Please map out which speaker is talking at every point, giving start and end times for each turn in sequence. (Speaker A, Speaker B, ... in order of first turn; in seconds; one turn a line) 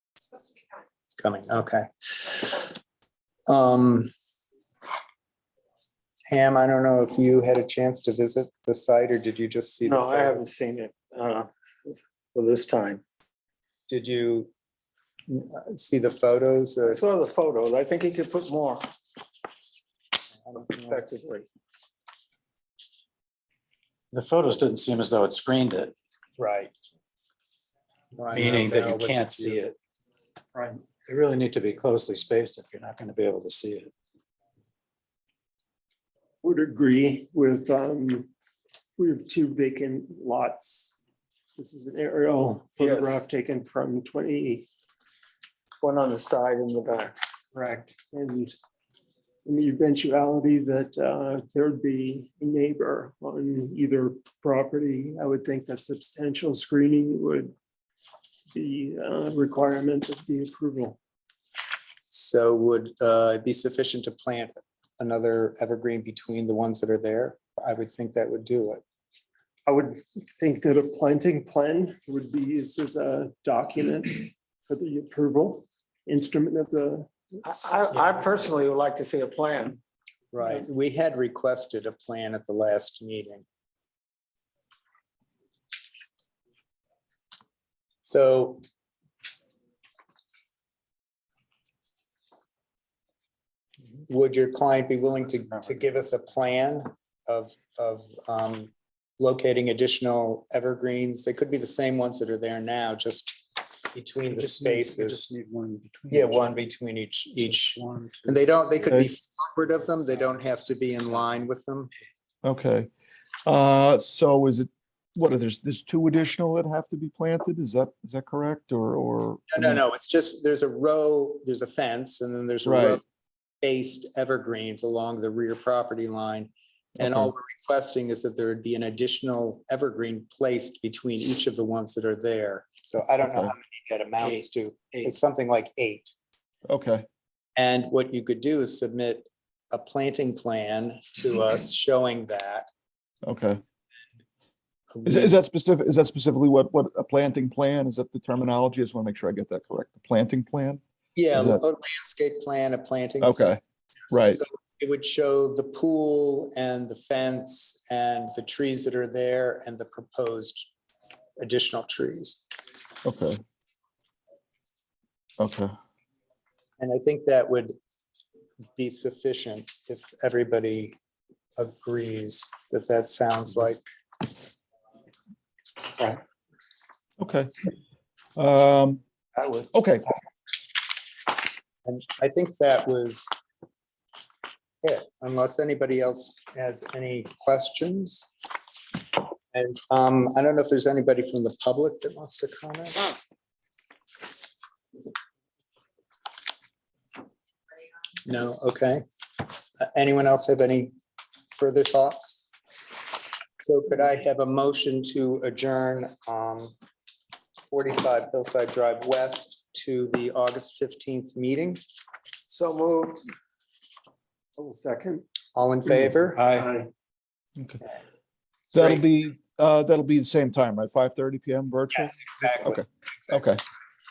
Speaker A: 1.2-2.7
Speaker A: 3.5-4.1
Speaker A: 6.3-10.4
Speaker B: 9.8-13.0
Speaker A: 13.9-14.5
Speaker A: 15.3-17.0
Speaker B: 16.9-18.8
Speaker A: 20.4-21.1
Speaker B: 20.6-21.5
Speaker C: 24.1-25.9
Speaker A: 26.4-26.7
Speaker A: 28.2-29.6
Speaker C: 28.3-29.8
Speaker D: 30.6-30.8
Speaker C: 31.0-33.9
Speaker D: 36.4-38.3
Speaker D: 39.0-41.0
Speaker D: 41.6-44.7
Speaker B: 42.8-43.3
Speaker B: 45.8-47.2
Speaker D: 47.5-48.5
Speaker D: 49.5-57.5
Speaker D: 58.5-61.0
Speaker A: 62.1-68.8
Speaker D: 69.7-77.1
Speaker B: 77.4-79.8
Speaker A: 77.9-78.5
Speaker A: 80.3-83.5
Speaker A: 88.0-88.6
Speaker A: 94.1-103.4
Speaker A: 103.9-105.3
Speaker C: 104.4-106.3
Speaker A: 106.1-111.9
Speaker C: 107.8-108.4
Speaker E: 112.4-112.9
Speaker E: 113.5-119.8
Speaker A: 119.5-123.0
Speaker E: 122.7-123.0
Speaker A: 123.6-136.1
Speaker E: 127.0-127.3
Speaker E: 133.2-133.5
Speaker E: 136.7-137.1
Speaker A: 137.6-142.7
Speaker E: 143.2-143.6
Speaker A: 144.9-145.3
Speaker E: 145.1-150.8
Speaker A: 151.2-153.4
Speaker E: 151.3-151.6
Speaker E: 153.2-153.6
Speaker E: 154.1-154.4
Speaker A: 154.1-160.7
Speaker A: 161.4-162.4
Speaker E: 163.1-163.4
Speaker E: 165.4-165.7
Speaker A: 166.8-167.8
Speaker A: 168.8-171.0
Speaker A: 171.6-173.8
Speaker E: 177.2-177.5
Speaker E: 178.4-179.0
Speaker E: 179.7-180.1
Speaker A: 181.8-183.3
Speaker A: 184.8-188.3
Speaker A: 189.5-193.1
Speaker A: 198.3-199.0
Speaker A: 199.8-200.9
Speaker A: 201.5-202.5
Speaker A: 203.6-206.7
Speaker A: 207.7-211.8
Speaker B: 212.5-213.2
Speaker D: 214.6-215.2
Speaker A: 215.6-216.4
Speaker D: 215.9-216.9
Speaker C: 216.4-216.7
Speaker E: 217.6-217.8
Speaker E: 218.7-223.6
Speaker A: 218.8-219.0
Speaker A: 221.9-223.5